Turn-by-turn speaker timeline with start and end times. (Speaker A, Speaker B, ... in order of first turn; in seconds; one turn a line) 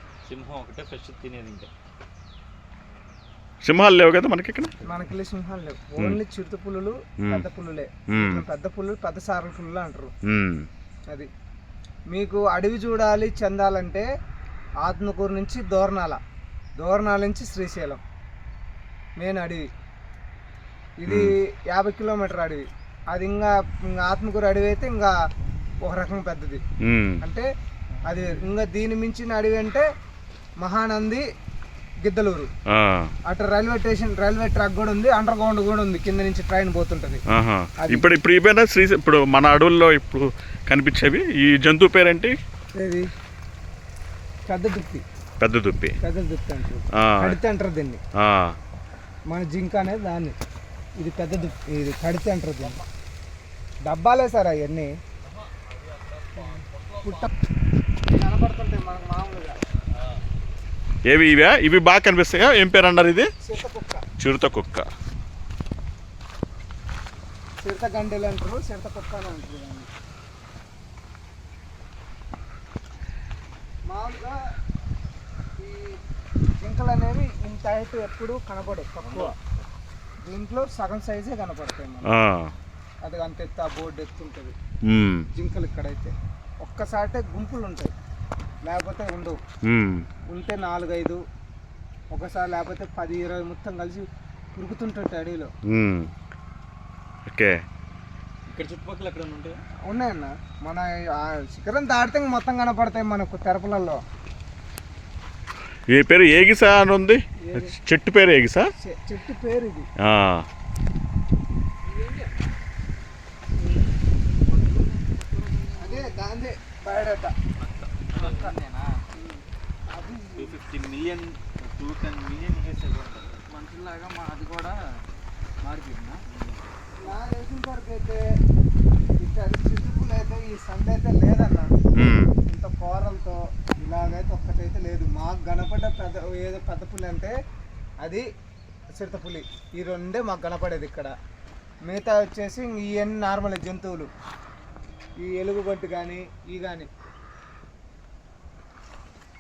Speaker A: 0.2-1.7
Speaker B: 3.6-4.7
Speaker C: 4.8-10.1
Speaker B: 8.1-8.4
Speaker B: 10.3-10.7
Speaker C: 12.1-14.1
Speaker C: 14.8-16.2
Speaker C: 16.8-18.0
Speaker C: 19.2-19.7
Speaker C: 21.0-25.1
Speaker C: 25.8-26.6
Speaker B: 26.8-27.2
Speaker C: 27.2-27.5
Speaker C: 28.1-29.9
Speaker C: 30.6-31.2
Speaker C: 32.0-32.5
Speaker B: 32.7-33.1
Speaker C: 33.3-37.2
Speaker B: 37.3-42.4
Speaker C: 37.8-38.1
Speaker C: 42.8-43.1
Speaker C: 44.5-45.0
Speaker B: 45.4-46.0
Speaker C: 46.0-48.0
Speaker B: 47.0-47.4
Speaker B: 48.2-48.6
Speaker C: 49.3-50.4
Speaker C: 51.0-52.8
Speaker C: 53.9-54.9
Speaker A: 55.2-57.3
Speaker C: 56.4-57.3
Speaker C: 58.1-59.6
Speaker B: 61.1-63.3
Speaker C: 63.4-64.0
Speaker B: 64.2-64.9
Speaker C: 67.6-69.9
Speaker C: 73.9-74.4
Speaker C: 75.6-76.0
Speaker C: 76.6-79.3
Speaker A: 79.0-79.5
Speaker C: 80.2-82.1
Speaker B: 82.1-82.5
Speaker C: 83.0-84.5
Speaker B: 84.9-85.3
Speaker C: 85.3-87.9
Speaker C: 88.7-89.4
Speaker B: 89.7-90.1
Speaker C: 90.3-91.2
Speaker C: 92.1-95.5
Speaker B: 95.7-96.1
Speaker A: 98.5-99.6
Speaker C: 99.9-104.0
Speaker B: 105.9-108.7
Speaker C: 107.4-107.7
Speaker C: 108.8-109.9
Speaker B: 110.0-110.5
Speaker D: 111.8-112.5
Speaker C: 113.6-113.9
Speaker D: 114.4-116.2
Speaker C: 115.8-117.3
Speaker A: 117.6-118.6
Speaker D: 118.2-119.0
Speaker C: 119.1-120.5
Speaker A: 120.4-123.4
Speaker D: 123.5-124.8
Speaker D: 125.6-126.2
Speaker A: 126.3-126.7
Speaker C: 127.0-128.2
Speaker C: 129.2-131.7
Speaker B: 131.9-132.3
Speaker C: 132.4-137.3
Speaker C: 139.0-141.1
Speaker C: 141.9-144.1
Speaker C: 145.2-146.9